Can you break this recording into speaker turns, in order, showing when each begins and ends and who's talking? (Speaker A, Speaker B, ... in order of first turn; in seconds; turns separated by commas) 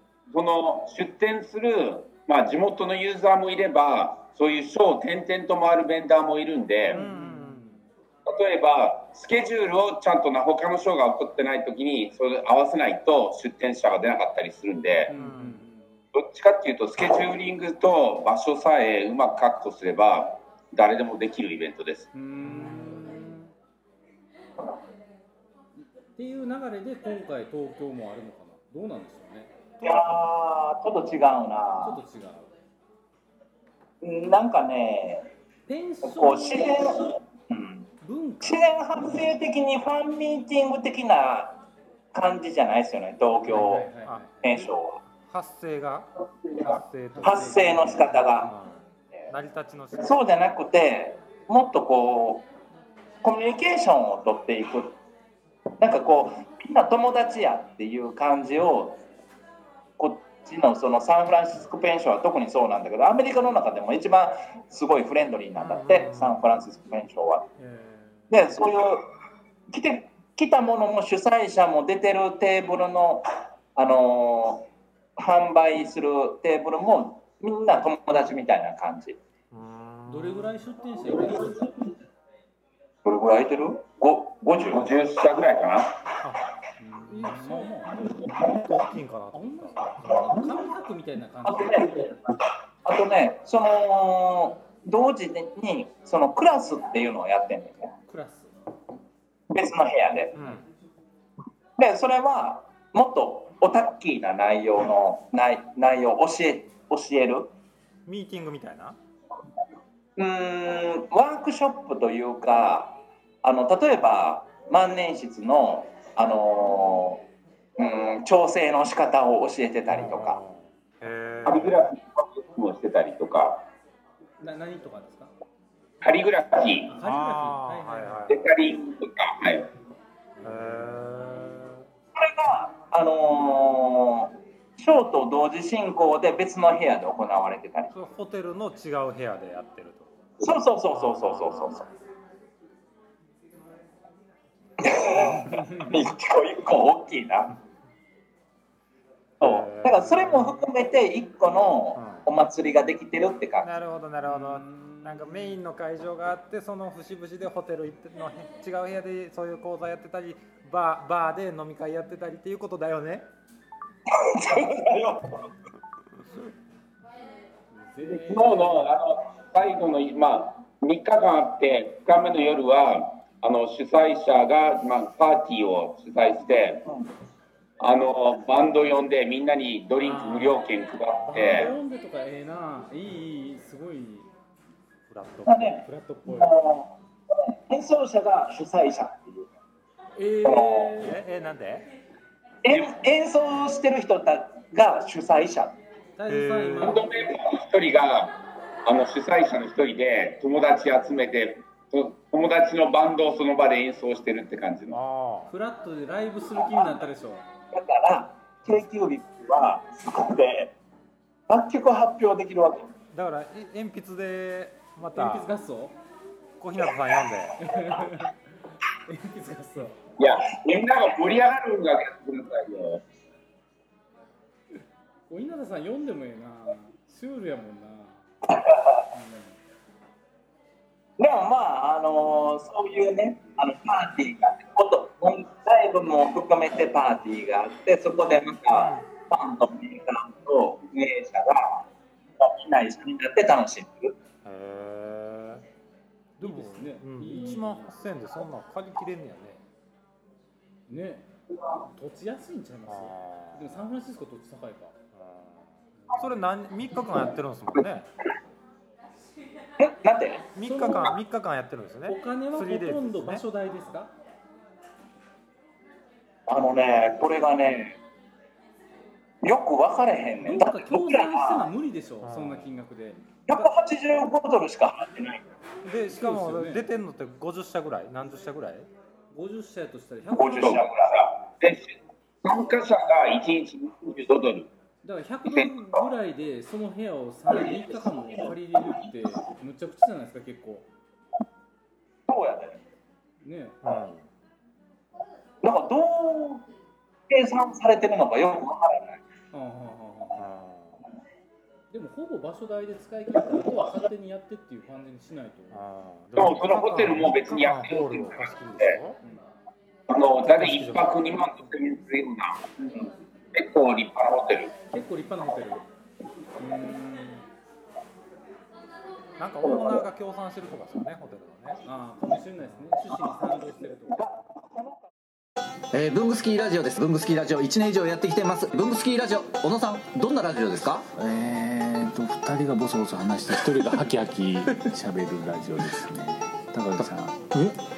Speaker A: 0.3-7.0, Speaker B: 6.9-7.8, Speaker C: 6.9-7.8, Speaker A: 8.2-15.1, Speaker C: 15.1-16.0, Speaker B: 15.1-15.6, Speaker A: 16.1-22.1, Speaker C: 22.1-23.5, Speaker B: 22.4-23.3, Speaker C: 26.1-29.5, Speaker B: 29.8-30.1, Speaker D: 29.8-32.0, Speaker C: 31.8-32.5, Speaker D: 34.0-35.3, Speaker C: 35.7-36.7, Speaker D: 36.0-37.9, Speaker C: 38.0-38.7, Speaker D: 38.4-41.6, Speaker D: 42.1-43.9, Speaker C: 43.5-44.3, Speaker B: 44.0-44.6, Speaker D: 44.4-45.0, Speaker B: 45.2-50.2, Speaker D: 46.5-48.5, Speaker C: 47.1-48.2, Speaker D: 49.9-52.4, Speaker D: 53.2-55.0, Speaker D: 55.8-59.0, Speaker D: 60.0-67.5, Speaker B: 65.5-66.5, Speaker C: 67.6-68.3, Speaker D: 68.3-69.0, Speaker D: 69.7-79.2, Speaker B: 79.5-80.6, Speaker C: 80.1-81.7, Speaker D: 83.0-84.9, Speaker A: 84.7-85.9, Speaker C: 86.8-88.0, Speaker B: 87.0-90.5, Speaker C: 89.3-91.8, Speaker D: 91.4-92.2, Speaker D: 92.8-97.9, Speaker C: 98.1-98.5, Speaker D: 99.5-100.4, Speaker B: 100.3-100.7, Speaker D: 101.8-107.5, Speaker B: 108.0-109.0, Speaker D: 110.2-117.2, Speaker D: 117.8-120.4, Speaker B: 119.9-121.9, Speaker A: 121.5-123.6, Speaker C: 124.4-125.3, Speaker A: 126.0-126.9, Speaker C: 126.9-128.3, Speaker B: 127.0-128.5, Speaker A: 128.3-129.7, Speaker B: 130.4-131.8, Speaker D: 132.2-137.9, Speaker B: 137.9-140.1, Speaker D: 140.4-141.8, Speaker B: 140.9-141.9, Speaker D: 144.8-147.6, Speaker C: 145.4-145.7, Speaker D: 149.4-153.7, Speaker B: 149.4-150.7, Speaker B: 151.9-152.2, Speaker B: 153.6-163.3, Speaker C: 154.2-155.6, Speaker D: 164.2-165.4, Speaker C: 167.7-168.9, Speaker A: 168.2-176.8, Speaker A: 177.8-181.7, Speaker C: 180.0-180.6, Speaker C: 181.2-184.3, Speaker B: 185.1-185.8, Speaker D: 185.5-186.9, Speaker C: 185.8-186.6, Speaker D: 187.7-189.5, Speaker C: 190.1-191.2, Speaker D: 190.4-190.9, Speaker B: 191.0-191.9, Speaker D: 192.6-195.8, Speaker C: 196.2-197.1, Speaker B: 196.3-197.0, Speaker A: 196.8-198.3, Speaker A: 198.8-205.0, Speaker B: 204.9-205.5, Speaker C: 205.5-207.4, Speaker D: 206.5-207.0, Speaker D: 207.7-210.7, Speaker D: 211.5-212.9, Speaker B: 213.1-215.5, Speaker C: 215.1-215.9, Speaker B: 216.6-217.7, Speaker C: 217.6-218.3, Speaker C: 219.1-220.0, Speaker A: 220.2-223.0, Speaker C: 225.3-228.3, Speaker D: 228.6-229.0, Speaker C: 229.1-229.6, Speaker D: 231.2-241.8, Speaker B: 238.7-239.1, Speaker D: 242.4-244.2, Speaker B: 244.4-245.6, Speaker B: 246.4-249.6, Speaker C: 246.4-247.9, Speaker C: 250.9-251.2, Speaker C: 251.9-254.9, Speaker B: 252.9-253.7, Speaker B: 255.1-258.1, Speaker D: 259.8-260.4, Speaker B: 260.5-263.4, Speaker C: 260.6-261.1, Speaker C: 262.0-264.1, Speaker D: 266.5-267.9, Speaker D: 269.4-271.7, Speaker C: 270.4-273.2, Speaker B: 272.2-272.7, Speaker D: 273.5-275.4, Speaker B: 275.8-278.9, Speaker C: 276.1-276.9, Speaker C: 279.3-280.9, Speaker D: 280.3-281.3, Speaker A: 280.6-280.8, Speaker A: 281.6-284.7, Speaker C: 285.0-290.9, Speaker D: 287.9-288.2, Speaker D: 292.3-292.8, Speaker C: 293.4-293.8, Speaker B: 293.8-294.2, Speaker D: 295.6-296.6, Speaker D: 297.3-299.2, Speaker C: 299.5-300.5, Speaker B: 300.4-301.0, Speaker C: 301.9-305.8, Speaker B: 305.7-309.2, Speaker A: 306.4-309.0, Speaker A: 310.1-312.7, Speaker B: 310.4-311.2, Speaker A: 313.5-314.7, Speaker C: 314.9-315.8, Speaker C: 316.6-317.4, Speaker B: 319.4-321.8, Speaker C: 321.8-324.2, Speaker D: 324.1-325.1, Speaker E: 325.9-331.1, Speaker F: 331.1-337.8